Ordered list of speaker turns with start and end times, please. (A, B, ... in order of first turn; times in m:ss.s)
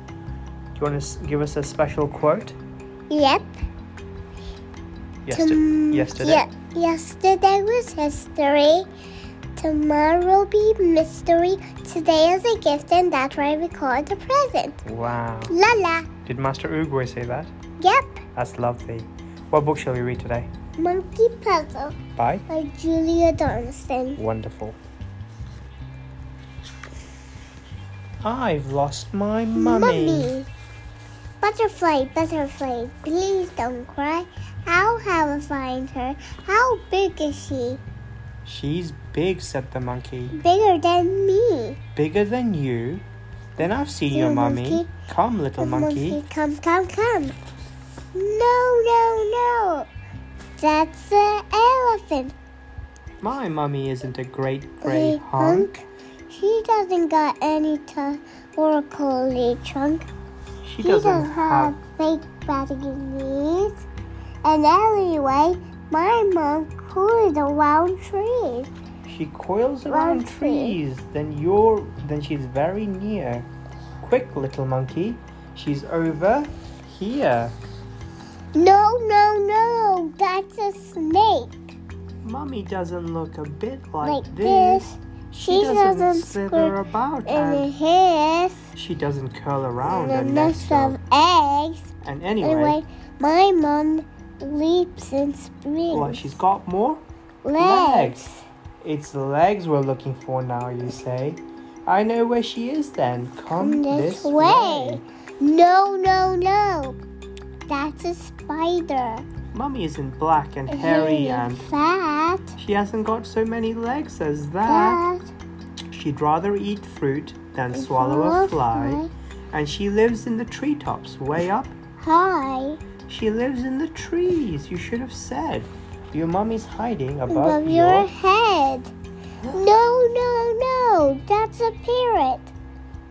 0:00.7-0:02.6 A
0:03.1-0:03.6 B
0:05.2-0:06.4 A
0:05.3-0:08.9 B
0:09.5-0:14.8 B
0:14.8-0:15.6 A
0:15.5-0:16.1 B
0:16.2-0:17.5 A
0:17.8-0:18.2 B
0:18.4-0:20.5 A
0:20.8-0:22.0 B
0:22.2-0:22.4 A
0:22.5-0:24.2 B
0:24.2-0:24.8 A
0:28.2-0:30.3 A
0:29.6-0:30.5 B
0:31.4-0:37.8 B
0:38.4-0:40.4 A
0:40.3-0:41.8 B
0:41.9-0:43.0 A
0:43.6-0:46.2 A
0:44.1-0:44.9 B
0:45.6-0:47.4 B
0:48.1-0:49.9 B
0:50.6-0:52.3 B
0:53.2-0:55.7 A
0:54.8-1:00.1 B
1:00.6-1:01.8 A
1:00.8-1:03.8 B
1:04.4-1:08.7 B
1:09.0-1:13.5 A
1:09.9-1:10.8 B
1:14.0-1:17.5 A
1:18.5-1:21.7 B
1:22.2-1:27.7 A
1:24.0-1:28.7 B
1:28.7-1:31.0 A
1:29.8-1:31.9 B
1:32.0-1:32.8 A
1:32.4-1:36.3 B
1:35.9-1:37.0 A
1:37.4-1:38.4 B
1:37.6-1:38.3 A
1:38.8-1:45.0 A
1:43.5-1:47.0 B
1:47.7-1:49.2 B
1:49.5-1:51.7 A
1:50.7-1:52.5 B
1:52.6-1:55.0 A
1:54.7-1:55.3 B
1:55.9-2:01.7 A
1:57.7-1:59.1 B
2:02.0-2:02.8 B
2:03.1-2:08.1 A
2:07.3-2:08.9 B
2:09.5-2:12.5 B